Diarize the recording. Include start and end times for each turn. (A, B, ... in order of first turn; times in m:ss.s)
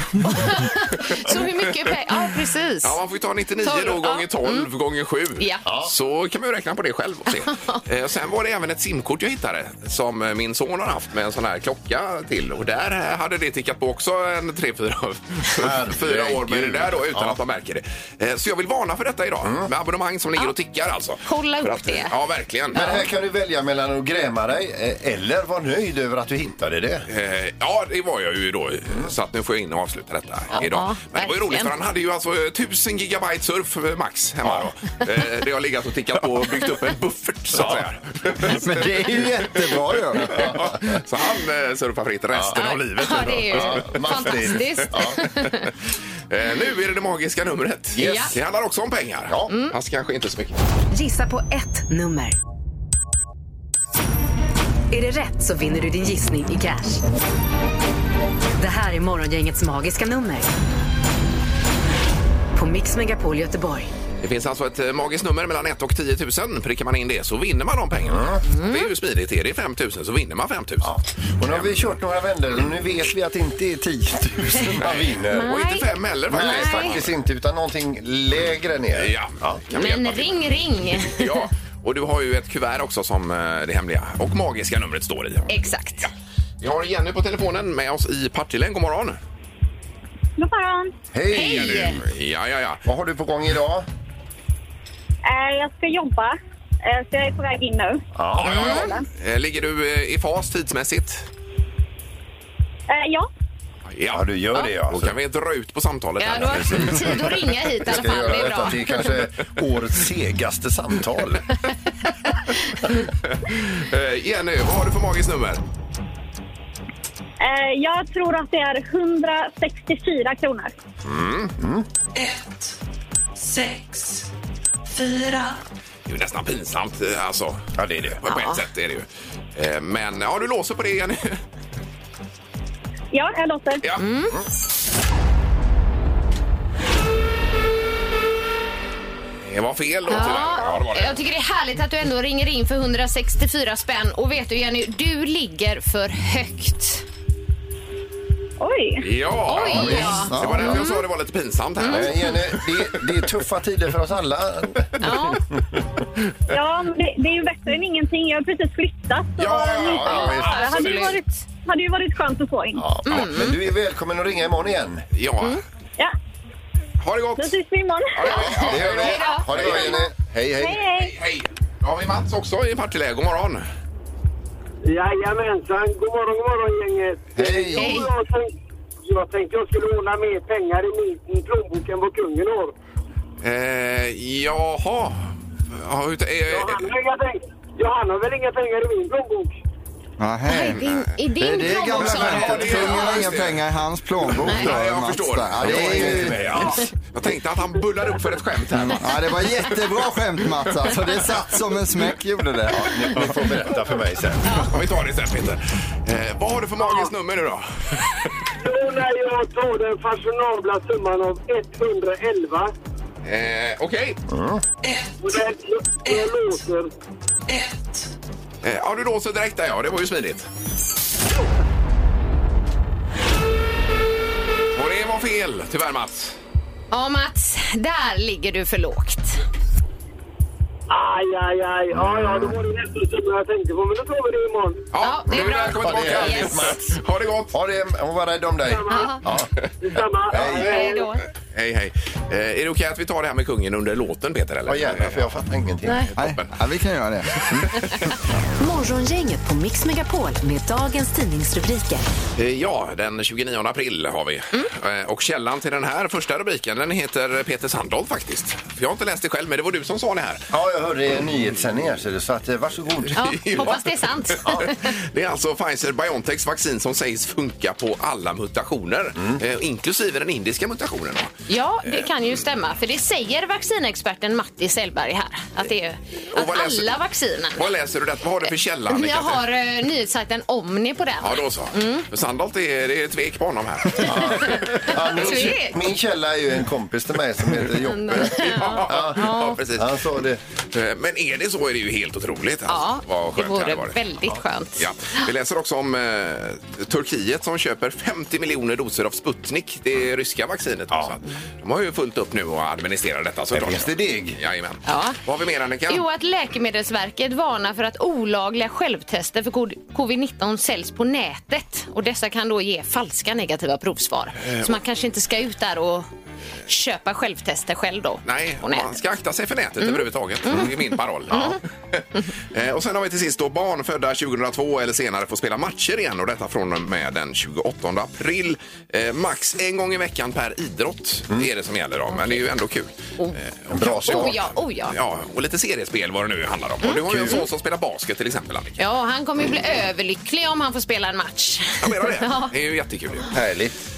0:00.2-0:03.0 A
0:02.8-0:22.9 B
0:03.6-0:04.7 A
0:05.4-0:05.6 A
0:05.7-0:05.9 C
0:07.5-0:07.8 A
0:15.6-0:17.4 C
0:19.4-0:19.7 C
0:21.2-0:22.1 A
0:22.7-0:27.1 C
0:27.1-0:43.9 B
0:30.6-0:31.7 A
0:37.5-0:37.9 C
0:38.5-0:40.5 D
0:40.2-0:40.8 C
0:42.3-0:45.2 C
0:42.5-0:45.7 A
0:46.3-0:50.6 B
0:48.0-0:48.3 C
0:48.0-0:48.3 A
0:50.9-0:52.4 E
0:54.9-0:57.0 E
0:58.6-1:00.5 E
1:02.6-1:03.9 E
1:04.2-1:11.9 B
1:08.1-1:08.4 C
1:08.5-1:08.9 A
1:10.8-1:15.6 C
1:14.8-1:17.2 B
1:15.3-1:16.9 A
1:16.3-1:19.6 C
1:19.0-1:26.1 B
1:19.7-1:21.5 A
1:25.5-1:26.1 A
1:26.6-1:29.2 B
1:30.4-1:30.9 F
1:31.1-1:32.1 C
1:31.3-1:32.0 A
1:31.4-1:32.8 B
1:32.8-1:33.9 C
1:35.2-1:38.0 F
1:38.2-1:38.8 C
1:38.4-1:41.3 B
1:38.5-1:38.9 A
1:38.6-1:39.1 F
1:42.9-1:43.3 F
1:43.9-1:44.3 B
1:44.1-1:45.2 C
1:44.9-1:47.2 B
1:46.2-1:49.0 A
1:46.3-1:51.4 C
1:53.3-1:55.6 B
1:57.4-2:00.7 F
2:01.1-2:01.5 B
2:01.1-2:01.9 C
2:06.1-2:11.4 B
2:07.8-2:08.2 C
2:08.3-2:08.6 A
2:13.1-2:13.8 F
2:14.0-2:14.4 A
2:19.4-2:21.2 B
2:20.1-2:27.0 A
2:28.6-2:29.0 F
2:29.0-2:33.0 B
2:29.5-2:31.0 A
2:29.7-2:30.8 D
2:31.8-2:32.1 A
2:31.8-2:35.2 C
2:35.0-2:35.4 A
2:36.5-2:42.9 F
2:39.4-2:41.1 B
2:39.8-2:40.6 C
2:40.0-2:41.4 A
2:42.8-2:45.0 C
2:43.0-2:43.6 A
2:45.1-2:45.6 B
2:47.0-2:47.6 B
2:47.4-2:48.4 F
2:48.1-2:50.0 B
2:48.3-2:50.0 A
2:48.3-2:50.8 C
2:50.6-2:51.2 F
2:51.0-2:53.6 B
2:54.8-2:58.5 G
2:57.4-2:57.9 C
2:57.8-2:58.1 A
2:59.0-3:02.8 G
3:03.4-3:06.9 B
3:06.5-3:09.6 G
3:10.2-3:10.8 D
3:10.5-3:13.2 A
3:11.4-3:16.7 D
3:11.9-3:13.7 B
3:14.2-3:19.8 B
3:15.6-3:16.9 C
3:18.7-3:23.3 D
3:22.7-3:24.6 C
3:24.4-3:24.7 A
3:24.5-3:28.4 B
3:26.8-3:27.1 G
3:28.6-3:32.7 G
3:33.2-3:34.2 B
3:34.3-3:34.6 C
3:35.2-3:36.9 G
3:38.6-3:40.5 B
3:44.8-3:46.4 B
3:46.9-3:49.4 A
3:50.9-3:54.9 G
3:51.9-3:52.5 C
3:54.9-3:57.5 B
3:55.0-3:56.7 A
3:55.4-3:57.0 C
3:57.5-3:59.5 C
3:58.6-3:59.2 G
3:58.9-3:59.2 A
3:59.8-4:01.1 G
4:00.3-4:00.8 C
4:00.3-4:00.8 B
4:00.4-4:01.2 A
4:01.5-4:05.4 B
4:04.7-4:06.1 C
4:05.9-4:06.5 B
4:06.2-4:07.8 D
4:08.6-4:12.1 E
4:12.4-4:20.4 B
4:20.5-4:23.2 C
4:23.2-4:31.3 B
4:23.2-4:24.8 A
4:31.5-4:37.6 A
4:36.3-4:37.0 B
4:37.6-4:39.4 B
4:38.9-4:42.1 A
4:41.2-4:44.7 B
4:44.0-4:50.4 C
4:44.2-4:45.8 A
4:47.7-4:49.6 A
4:48.3-4:50.0 B
4:50.7-4:54.0 B
4:52.7-4:54.8 A
4:54.8-5:06.0 B
5:03.5-5:04.4 C
5:04.9-5:05.2 A
5:05.9-5:16.1 A
5:14.4-5:14.7 B
5:16.7-5:18.9 A
5:18.2-5:38.8 B
5:19.8-5:20.8 A
5:21.3-5:21.6 C
5:21.3-5:21.6 A
5:33.2-5:35.0 A
5:33.7-5:34.4 C
5:36.8-5:37.5 A
5:38.8-5:42.5 A
5:41.8-5:43.4 B
5:43.3-5:43.8 C